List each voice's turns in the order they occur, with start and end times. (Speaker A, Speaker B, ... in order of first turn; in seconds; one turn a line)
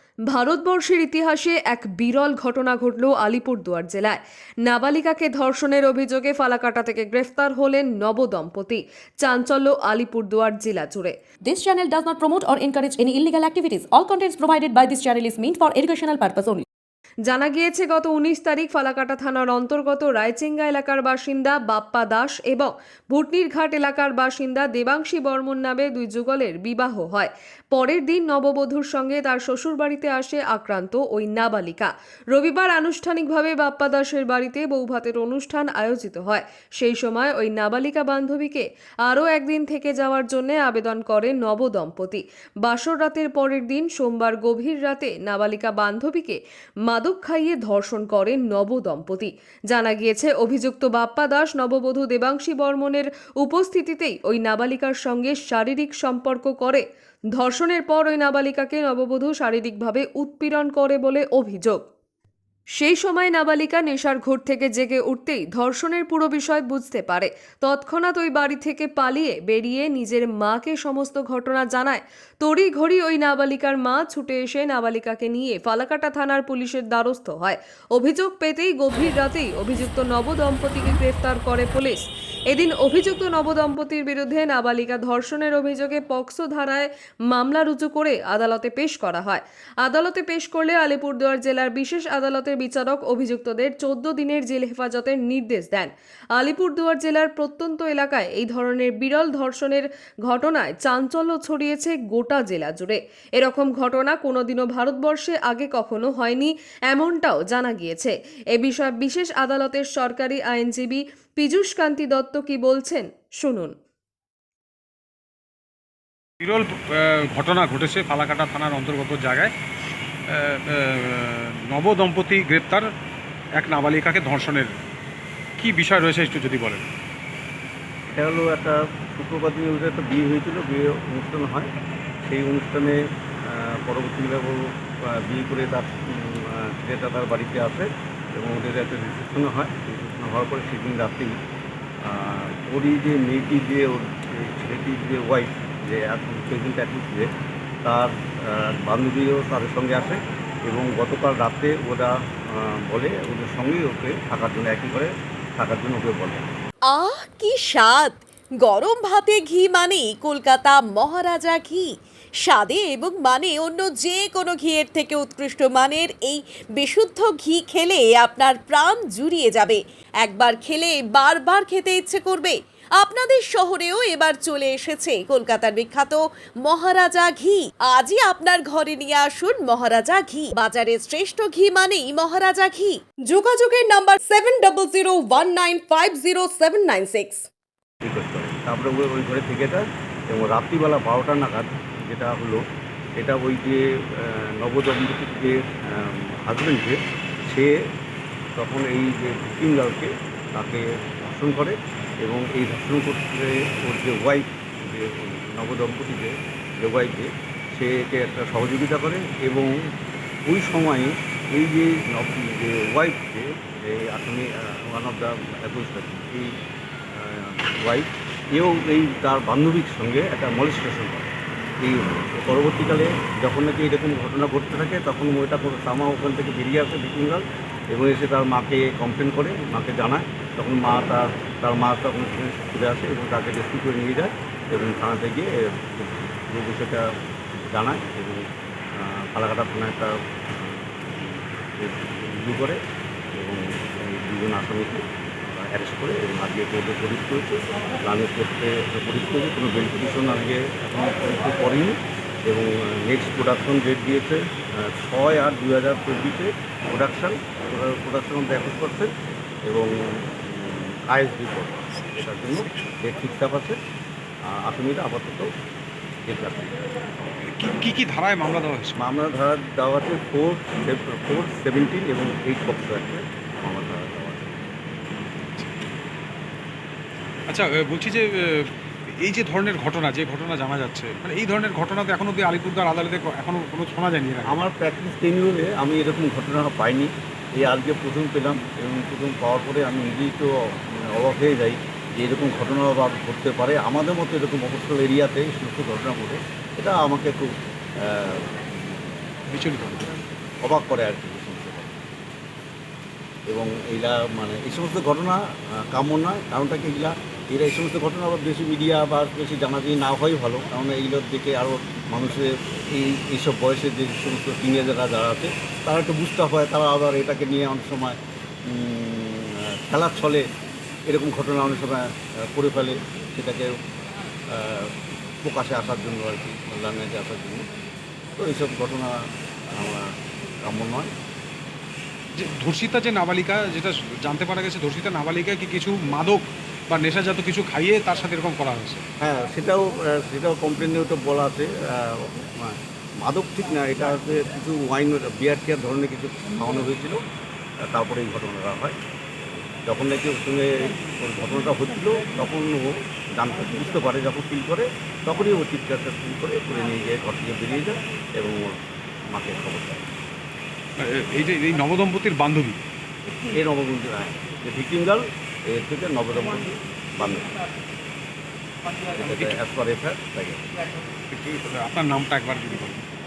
Speaker A: 0.3-11.2
Speaker B: 11.5-16.6
Speaker A: 17.3-56.9
Speaker A: 57.4-61.8
Speaker A: 62.8-113.7
Speaker C: 116.4-119.5
Speaker C: 120.3-122.9
Speaker C: 123.6-124.7
Speaker C: 125.6-126.9
Speaker D: 128.1-131.7
Speaker D: 132.2-141.4
Speaker D: 142.0-147.3
Speaker D: 147.8-156.5
Speaker E: 156.9-187.4
Speaker D: 188.0-192.6
Speaker D: 193.2-197.7
Speaker D: 198.6-209.7
Speaker D: 210.5-216.5
Speaker D: 217.1-237.1
Speaker D: 237.7-242.8
Speaker D: 243.3-259.1
Speaker D: 259.7-263.8
Speaker D: 264.5-265.5
Speaker D: 266.3-266.8
Speaker C: 267.4-269.0
Speaker D: 269.0-274.7
Speaker C: 277.5-278.7
Speaker C: 279.2-284.6
Speaker D: 284.4-298.6
Speaker C: 299.5-300.2
Speaker D: 300.6-302.0
Speaker D: 303.5-320.5
Speaker D: 321.1-323.8
Speaker D: 324.5-327.7
Speaker D: 328.4-331.1
Speaker C: 332.4-339.0
Speaker D: 339.2-347.2
Speaker D: 347.9-349.0
Speaker D: 349.9-358.8
Speaker D: 359.3-360.1
Speaker C: 361.0-362.8
Speaker D: 363.3-367.5
Speaker D: 369.1-370.6
Speaker C: 369.2-369.6
Speaker C: 371.3-373.0